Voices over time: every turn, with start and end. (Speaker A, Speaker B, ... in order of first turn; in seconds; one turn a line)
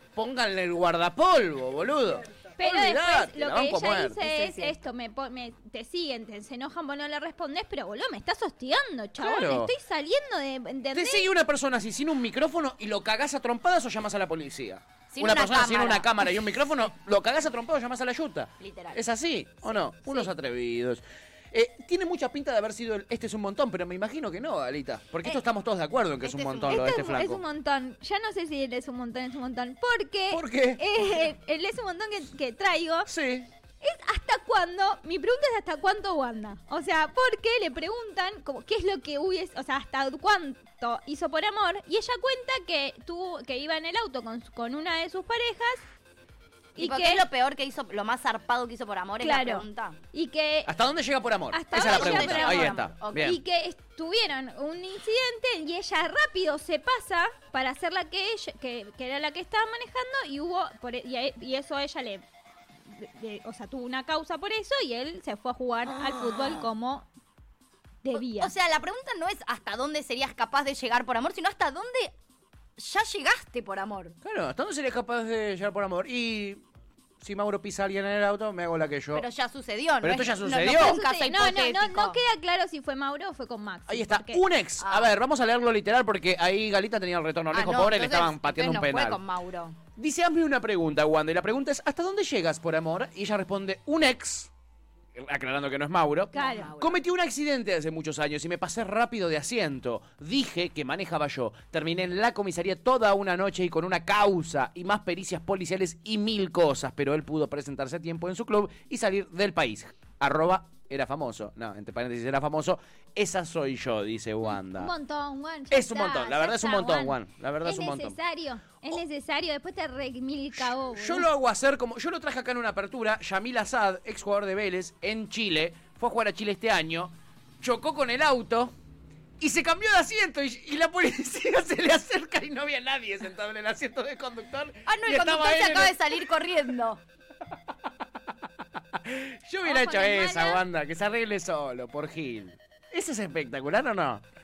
Speaker A: 0.1-4.2
Speaker B: 2.6-11.2
Speaker C: 4.2-4.8
Speaker A: 9.2-9.7
Speaker A: 10.9-27.4
Speaker C: 15.1-16.1
Speaker C: 18.6-19.0
Speaker C: 20.0-20.3
Speaker C: 26.2-27.0
Speaker B: 26.6-33.1
Speaker A: 30.3-30.8
Speaker A: 33.0-33.5
Speaker B: 33.8-45.8
Speaker B: 46.8-47.2
Speaker C: 46.8-50.0
Speaker B: 49.2-50.7
Speaker A: 50.6-53.4
Speaker B: 51.5-62.2
Speaker C: 51.7-53.4
Speaker B: 62.9-67.1
Speaker C: 66.2-66.6
Speaker B: 68.0-68.5
Speaker C: 68.2-72.1
Speaker C: 72.8-74.2
Speaker A: 74.2-76.6
Speaker A: 77.2-79.2
Speaker C: 79.1-82.2
Speaker A: 80.0-81.0
Speaker B: 80.7-84.4
Speaker A: 83.9-89.2
Speaker C: 84.8-85.1
Speaker C: 87.5-89.8
Speaker A: 90.0-94.5
Speaker A: 95.1-114.9
Speaker C: 96.3-97.0
Speaker B: 96.3-96.7
Speaker B: 114.6-121.3
Speaker A: 115.7-118.2
Speaker A: 120.6-128.7
Speaker A: 129.4-136.3
Speaker C: 134.9-137.0
Speaker A: 138.9-144.2
Speaker B: 139.6-140.6